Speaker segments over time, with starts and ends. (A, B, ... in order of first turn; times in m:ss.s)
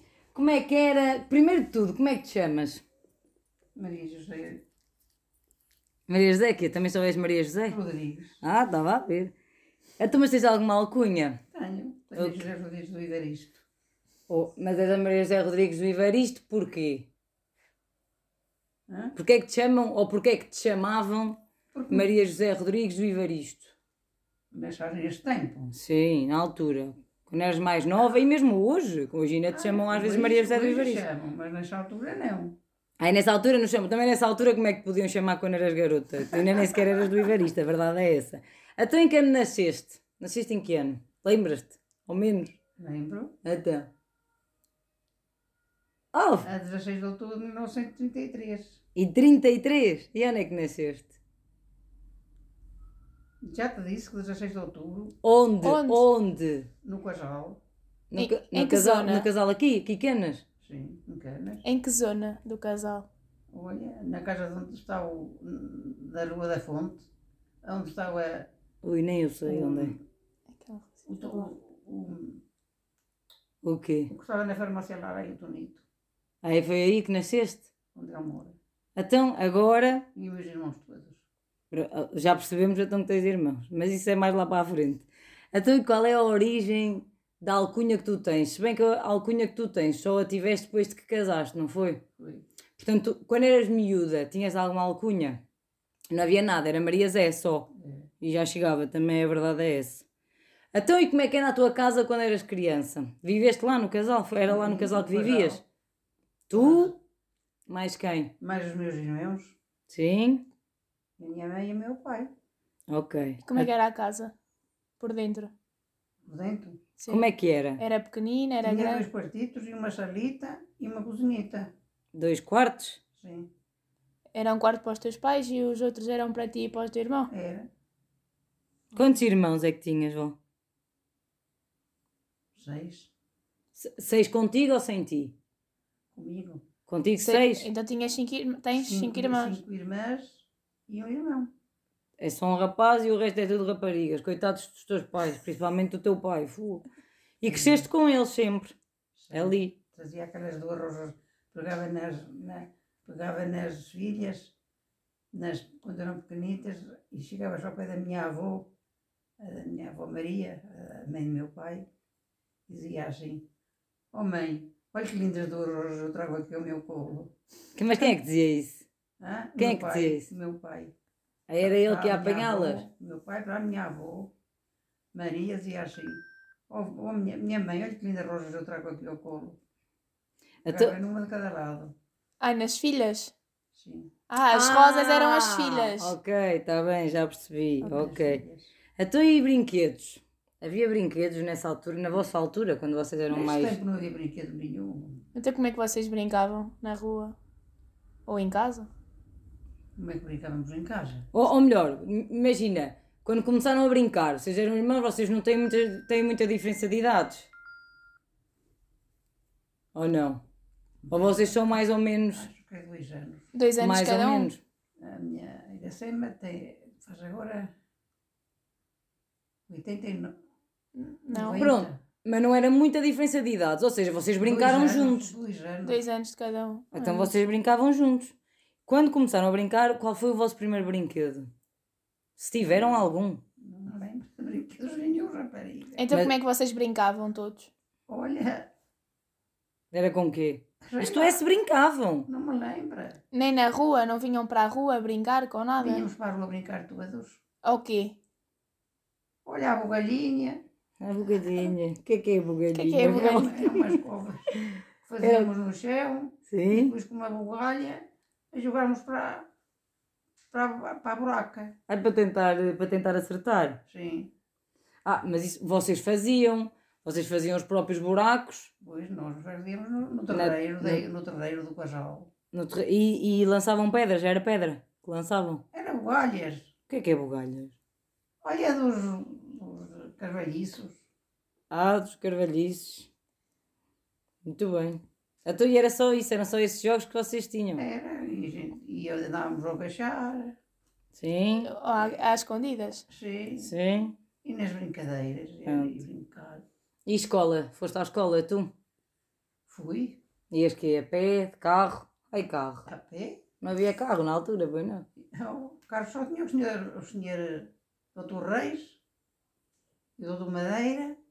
0:00.3-0:02.8 A
0:03.7-0:04.6 B
0:06.1-0:07.8 A
0:07.7-0:08.4 B
0:08.4-0:09.3 A
0:10.0-0:11.4 A
0:11.5-0:13.6 B
0:12.2-0:12.4 A
0:14.3-0:17.1 A
0:18.9-0:19.1 B
0:19.1-0:23.7 A
0:21.7-0:22.1 B
0:24.5-0:25.7 B
0:25.7-0:31.0 A
0:29.5-0:32.6 B
0:33.0-0:42.6 A
0:36.3-0:36.8 B
0:42.8-0:43.4 B
0:43.4-0:43.9 A
0:46.1-0:46.5 A
0:46.4-0:48.8 B
0:48.9-0:51.1 A
0:53.4-0:55.1 B
0:55.2-0:56.7 A
0:55.6-0:56.0 C
0:56.8-0:57.6 B
0:58.1-1:00.4 A
0:58.1-0:59.3 C
1:00.6-1:01.6 B
1:01.6-1:03.0 C
1:03.5-1:07.1 B
1:07.6-1:08.5 B
1:08.8-1:10.0 A
1:09.4-1:10.0 B
1:10.5-1:11.5 C
1:11.1-1:12.4 B
1:13.6-1:14.1 A
1:14.1-1:15.8 B
1:16.4-1:17.7 A
1:17.9-1:18.6 B
1:19.0-1:20.0 A
1:20.1-1:21.2 B
1:21.7-1:32.0 A
1:32.2-1:32.4 B
1:32.8-1:35.4 A
1:36.1-1:37.7 A
1:37.7-1:38.1 B
1:38.2-1:40.0 A
1:40.7-1:45.6 A
1:44.5-1:45.6 B
1:46.5-1:46.9 A
1:46.5-1:47.0 B
1:47.7-1:48.3 A
1:48.4-1:49.6 B
1:49.9-1:50.5 A
1:51.2-1:52.3 B
1:52.9-1:53.7 A
1:53.4-1:54.3 C
1:55.0-1:55.5 C
1:56.2-1:56.8 B
1:57.0-1:57.3 C
1:57.1-1:57.8 A
1:57.8-1:59.0 C
1:58.6-2:01.7 B
2:02.1-2:03.0 A
2:03.2-2:03.5 B
2:04.3-2:07.3 C
2:07.3-2:07.7 B
2:08.9-2:10.4 A
2:12.5-2:13.1 B
2:13.8-2:15.3 A
2:16.1-2:16.6 B
2:16.9-2:17.7 A
2:17.2-2:19.6 C
2:18.8-2:21.5 B
2:22.2-2:26.8 A
2:27.4-2:28.7 A
2:27.4-2:27.9 B
2:29.2-2:34.5 B
2:29.3-2:29.8 A
2:35.3-2:38.7 B
2:39.4-2:41.9 B
2:42.7-2:43.5 B
2:44.1-2:47.3 B
2:47.7-2:48.8 A
2:49.2-2:50.9 B
2:49.6-2:50.3 A
2:51.5-2:52.8 A
2:51.6-2:54.3 B
2:55.1-2:59.6 B
3:00.6-3:01.0 A
3:00.6-3:01.9 B
3:02.4-3:03.3 C
3:03.7-3:04.1 B
3:04.3-3:06.1 C
3:04.5-3:08.4 A
3:07.8-3:08.7 B
3:09.0-3:13.8 A
3:13.3-3:15.2 B
3:15.3-3:17.4 C
3:18.3-3:18.9 C
3:20.0-3:21.3 B
3:21.3-3:27.5 A
3:29.9-3:30.4 A
3:31.0-3:33.5 B
3:31.1-3:32.5 A
3:33.5-3:34.5 C
3:33.8-3:34.6 A
3:35.0-3:37.7 B
3:39.7-3:40.4 B
3:41.0-3:41.6 C
3:41.3-3:42.0 B
3:41.5-3:45.3 A
3:44.4-3:46.0 B
3:45.8-3:47.5 C
3:46.9-3:48.3 A
3:48.9-3:51.5 A
3:52.4-3:53.4 A
3:52.6-3:53.0 B
3:53.6-3:56.1 B
3:56.0-3:57.7 C
3:58.1-3:58.7 B
3:59.9-4:02.3 A
4:00.8-4:01.4 B
4:02.3-4:03.2 B
4:03.3-4:06.1 C
4:05.8-4:07.4 B
4:07.6-4:08.2 C
4:09.4-4:10.6 B
4:11.0-4:13.5 A
4:12.7-4:14.0 C
4:13.0-4:14.5 B
4:15.0-4:19.5 B
4:15.2-4:15.5 A
4:16.5-4:16.9 A
4:20.5-4:21.7 B
4:21.9-4:23.8 A
4:23.9-4:24.3 B
4:25.0-4:28.7 A
4:28.8-4:32.3 B
4:30.3-4:31.0 A
4:32.5-4:35.6 A
4:35.7-4:36.7 B
4:36.9-4:37.8 A
4:38.4-4:41.0 B
4:41.7-4:43.1 A
4:44.4-4:47.8 A
4:47.8-4:50.6 B
4:51.1-4:51.7 A
4:51.6-4:53.0 C
4:53.1-4:53.7 B
4:53.6-4:54.2 A
4:54.4-4:56.6 B
4:55.6-4:56.0 A
4:57.0-4:58.7 A
4:59.7-5:00.2 B
5:00.5-5:02.9 A
5:02.9-5:03.4 B
5:03.6-5:05.0 A
5:05.3-5:09.0 B
5:10.2-5:11.2 B